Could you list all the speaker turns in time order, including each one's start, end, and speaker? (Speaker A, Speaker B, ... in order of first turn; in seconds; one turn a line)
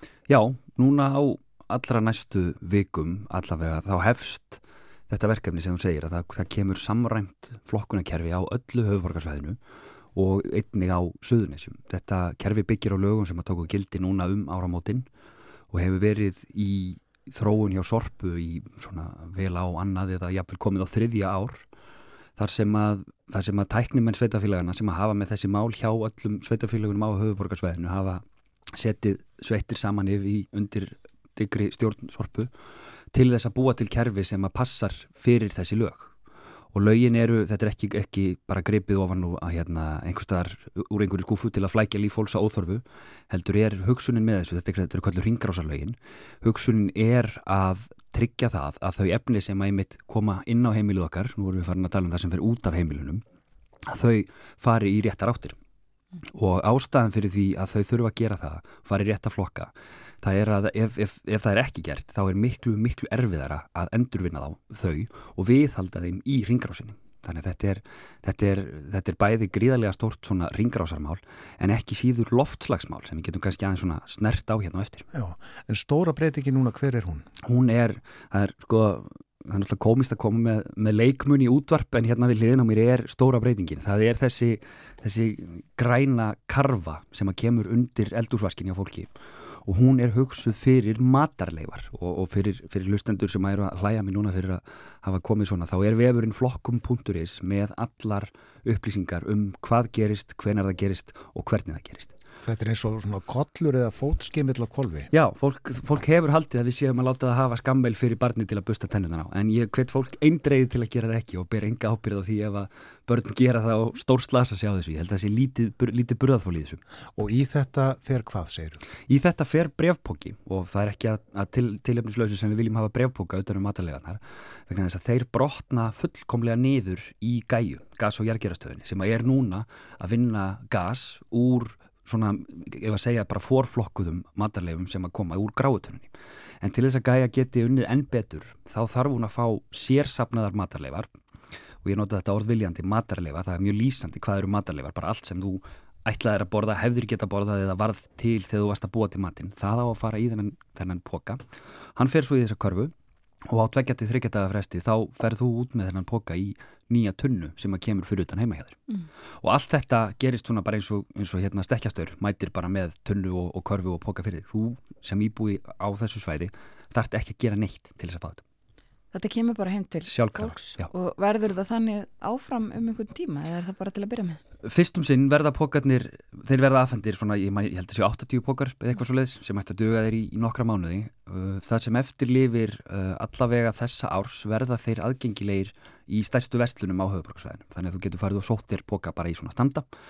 Speaker A: 0.3-9.6
Speaker A: 10.1-15.1
Speaker A: 15.7-21.6
Speaker A: 22.4-28.2
Speaker A: 28.7-32.5
Speaker A: 33.1-36.1
Speaker A: 36.7-53.2
Speaker A: 53.9-55.5
Speaker A: 56.3-75.1
Speaker B: 75.1-77.3
Speaker A: 77.4-102.1
Speaker B: 102.4-105.1
Speaker A: 105.1-116.8
Speaker B: 117.2-118.8
Speaker A: 119.1-136.1
Speaker A: 136.6-141.1
Speaker A: 141.8-152.9
Speaker A: 153.5-158.8
Speaker A: 159.4-168.4
Speaker C: 169.1-174.4
Speaker A: 170.1-170.9
Speaker A: 174.6-189.8